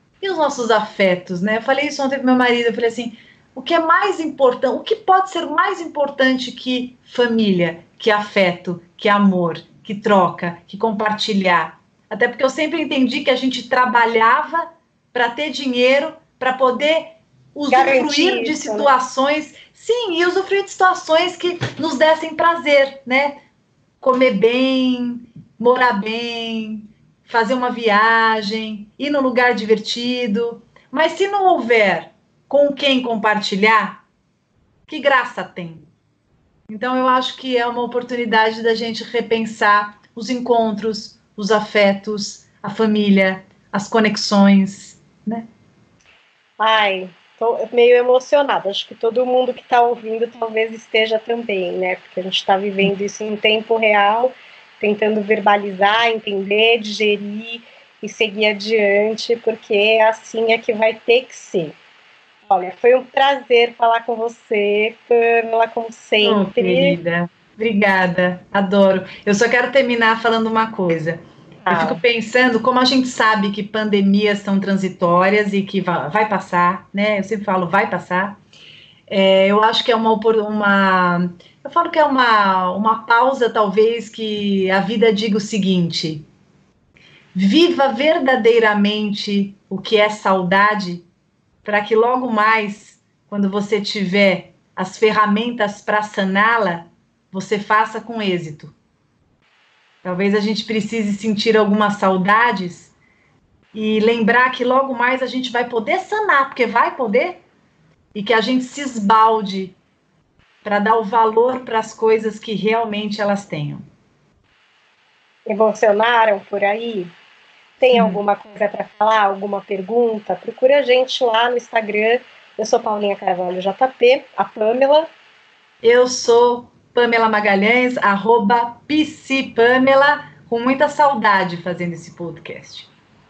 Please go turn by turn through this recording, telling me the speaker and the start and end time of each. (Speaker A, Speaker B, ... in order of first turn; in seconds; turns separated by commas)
Speaker A: 0.2-23.4, Speaker B: 17.7-18.9, Speaker A: 24.0-34.0, Speaker A: 34.9-35.9, Speaker A: 36.7-45.5, Speaker B: 46.6-61.7, Speaker B: 62.5-67.0, Speaker A: 66.2-78.4, Speaker B: 71.6-72.0, Speaker A: 79.1-86.2, Speaker A: 87.3-91.0, Speaker A: 91.6-98.7, Speaker A: 100.0-102.9, Speaker A: 103.7-107.4, Speaker A: 108.1-109.7, Speaker A: 110.6-113.9, Speaker B: 115.5-117.1, Speaker B: 117.8-125.1, Speaker A: 117.9-118.2, Speaker A: 125.8-132.9